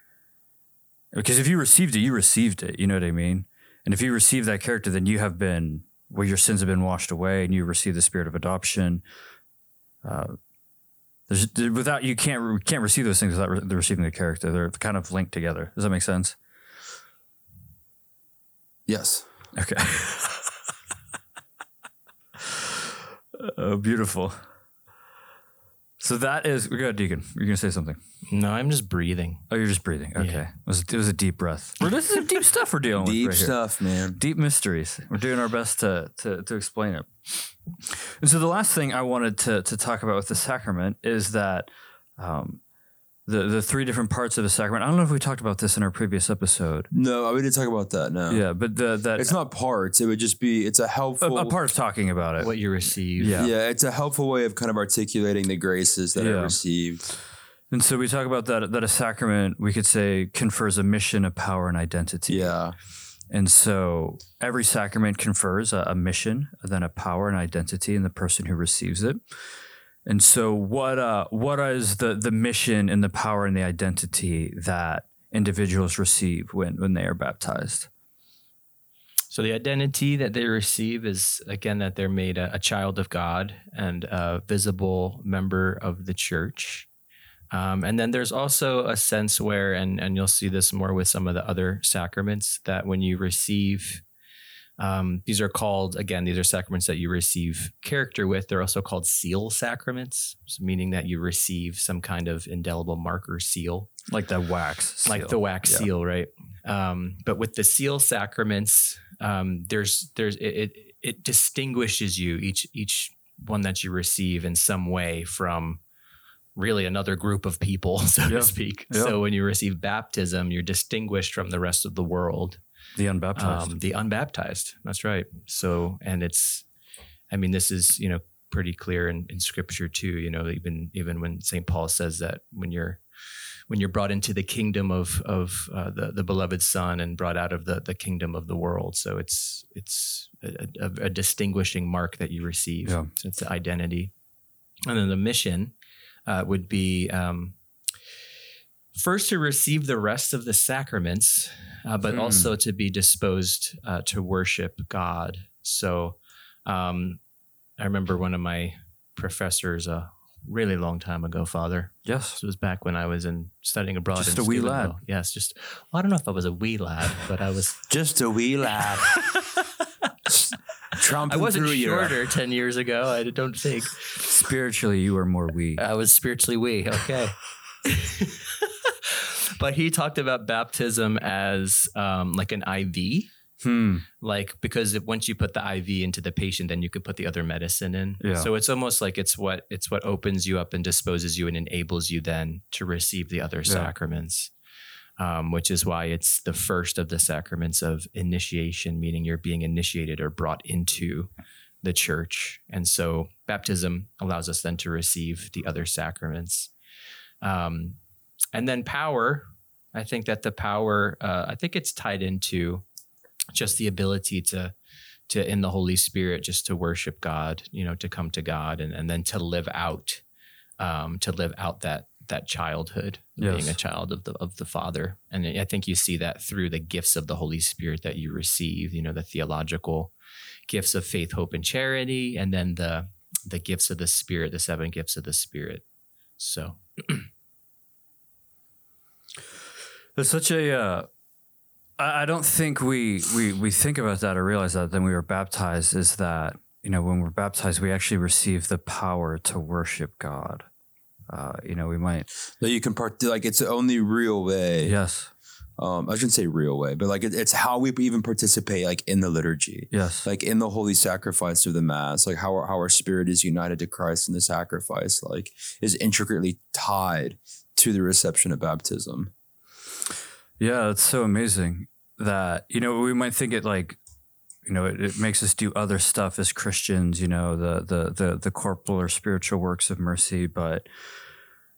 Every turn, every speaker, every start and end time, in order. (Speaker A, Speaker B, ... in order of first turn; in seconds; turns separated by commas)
Speaker A: 1.1-9.0, Speaker A: 10.0-10.4, Speaker A: 11.3-16.4, Speaker B: 18.9-19.3, Speaker A: 19.6-20.4, Speaker A: 22.4-22.7, Speaker A: 23.4-24.4, Speaker A: 26.0-28.0, Speaker C: 28.3-29.5, Speaker A: 29.5-33.6, Speaker C: 30.2-30.4, Speaker B: 33.0-34.2, Speaker A: 34.1-37.3, Speaker A: 38.2-42.6, Speaker A: 43.3-46.9, Speaker B: 46.9-48.5, Speaker A: 48.3-49.3, Speaker B: 49.1-51.6, Speaker A: 51.2-52.5, Speaker C: 52.4-53.5, Speaker A: 53.2-53.5, Speaker B: 53.3-57.0, Speaker A: 56.2-56.6, Speaker A: 57.7-62.5, Speaker B: 62.3-62.8, Speaker A: 63.3-69.2, Speaker A: 70.1-77.9, Speaker C: 79.3-86.9, Speaker C: 87.5-94.0, Speaker C: 94.8-103.9, Speaker A: 104.1-105.9, Speaker C: 105.1-115.8, Speaker C: 116.6-122.6, Speaker A: 118.3-119.2, Speaker A: 123.0-123.8, Speaker C: 123.4-126.7, Speaker C: 127.3-144.1, Speaker C: 144.9-145.7, Speaker C: 146.3-147.6, Speaker C: 148.9-157.2, Speaker A: 152.1-152.5, Speaker C: 157.8-167.9, Speaker A: 162.1-162.4, Speaker A: 164.2-165.0, Speaker B: 167.9-169.1, Speaker C: 168.8-169.7, Speaker B: 170.3-172.2, Speaker C: 171.0-174.4, Speaker A: 174.2-175.8, Speaker C: 175.8-183.3, Speaker A: 183.6-184.1, Speaker C: 184.2-194.5, Speaker A: 188.2-188.5, Speaker A: 193.7-193.9, Speaker C: 195.2-201.3, Speaker C: 201.8-206.7, Speaker C: 207.4-208.0, Speaker C: 208.5-212.8, Speaker C: 213.5-214.7, Speaker C: 215.3-220.2, Speaker C: 220.8-230.1, Speaker A: 223.4-223.8, Speaker C: 230.7-235.8, Speaker C: 236.4-237.3, Speaker A: 240.2-241.1, Speaker A: 242.0-250.7, Speaker A: 251.3-252.3, Speaker B: 252.6-254.9, Speaker A: 254.8-255.3, Speaker B: 255.8-269.3, Speaker A: 259.9-260.3, Speaker A: 270.6-274.0, Speaker A: 274.7-280.9